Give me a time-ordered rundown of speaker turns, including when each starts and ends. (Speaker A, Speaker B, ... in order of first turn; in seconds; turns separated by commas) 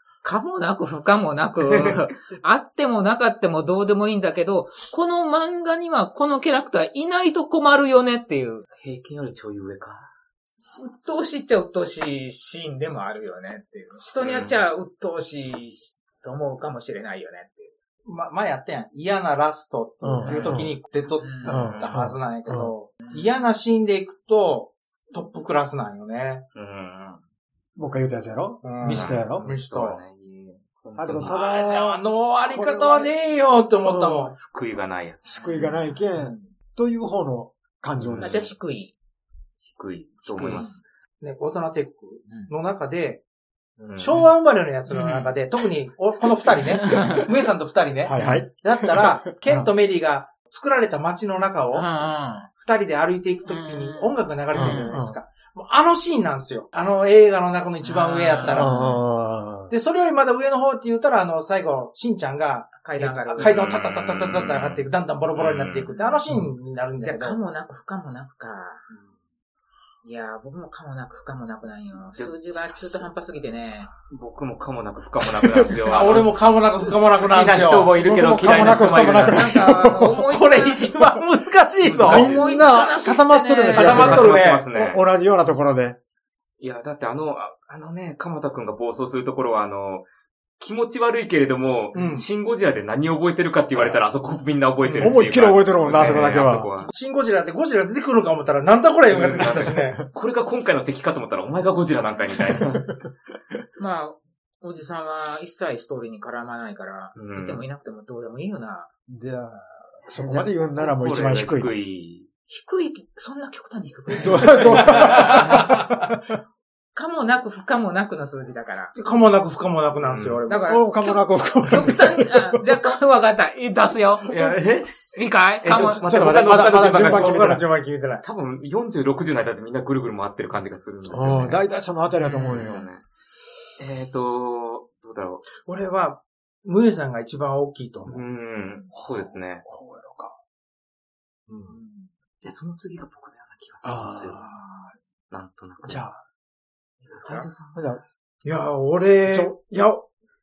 Speaker A: 0.2-8.7, Speaker B: 1.7-2.0, Speaker B: 8.8-10.1, Speaker A: 10.8-17.7, Speaker B: 14.2-14.6, Speaker C: 18.0-26.4, Speaker D: 20.0-20.8, Speaker A: 20.2-20.6, Speaker A: 21.2-21.6, Speaker D: 21.4-22.7, Speaker B: 21.6-21.9, Speaker B: 26.5-27.2, Speaker D: 27.8-29.5, Speaker C: 28.6-30.0, Speaker B: 28.8-31.4, Speaker D: 30.9-33.1, Speaker C: 31.1-34.3, Speaker B: 33.8-35.7, Speaker D: 35.2-38.5, Speaker A: 35.4-35.8, Speaker B: 38.0-38.4, Speaker A: 38.2-38.9, Speaker B: 39.6-40.8, Speaker A: 40.4-40.7, Speaker C: 41.2-43.2, Speaker B: 43.8-44.3, Speaker C: 44.0-51.9, Speaker A: 44.9-45.4, Speaker A: 46.8-47.2, Speaker D: 48.0-49.7, Speaker A: 48.2-48.4, Speaker A: 51.7-52.5, Speaker C: 52.5-58.9, Speaker A: 53.5-54.9, Speaker D: 54.5-55.2, Speaker A: 57.8-59.0, Speaker D: 58.4-59.7, Speaker C: 59.7-67.4, Speaker A: 62.8-63.7, Speaker B: 63.4-65.9, Speaker A: 65.9-66.2, Speaker A: 67.0-68.8, Speaker A: 70.0-73.9, Speaker B: 72.2-73.1, Speaker B: 74.1-79.5, Speaker C: 75.8-78.0, Speaker D: 78.0-80.2, Speaker A: 79.2-80.9, Speaker C: 80.1-82.3, Speaker B: 81.8-82.7, Speaker D: 82.0-86.0, Speaker A: 82.0-84.1, Speaker C: 83.7-84.7, Speaker B: 83.7-85.0, Speaker B: 86.6-90.1, Speaker B: 90.6-96.9, Speaker C: 91.9-92.2, Speaker C: 94.8-95.2, Speaker D: 95.0-96.7, Speaker C: 96.9-100.0, Speaker B: 99.1-102.9, Speaker D: 102.5-102.8, Speaker A: 103.8-108.9, Speaker B: 107.2-107.6, Speaker D: 109.1-111.7, Speaker B: 110.2-112.3, Speaker A: 112.5-115.7, Speaker D: 114.2-116.2, Speaker C: 114.8-115.8, Speaker A: 116.9-118.9, Speaker C: 118.9-120.7, Speaker B: 120.0-120.4, Speaker A: 120.5-124.3, Speaker D: 120.7-122.6, Speaker B: 124.3-127.5, Speaker A: 125.1-126.0, Speaker D: 126.0-127.6, Speaker C: 126.1-128.2, Speaker B: 128.2-131.6, Speaker D: 131.1-132.8, Speaker B: 132.2-133.0, Speaker B: 133.8-135.4, Speaker C: 135.6-138.2, Speaker B: 138.1-139.6, Speaker D: 138.9-140.3, Speaker C: 141.5-141.8, Speaker A: 141.7-142.1, Speaker B: 142.4-144.5, Speaker D: 143.8-144.9, Speaker B: 145.3-146.0, Speaker D: 145.8-146.2, Speaker B: 147.0-147.8, Speaker D: 147.3-148.0, Speaker C: 148.4-150.0, Speaker D: 149.2-149.5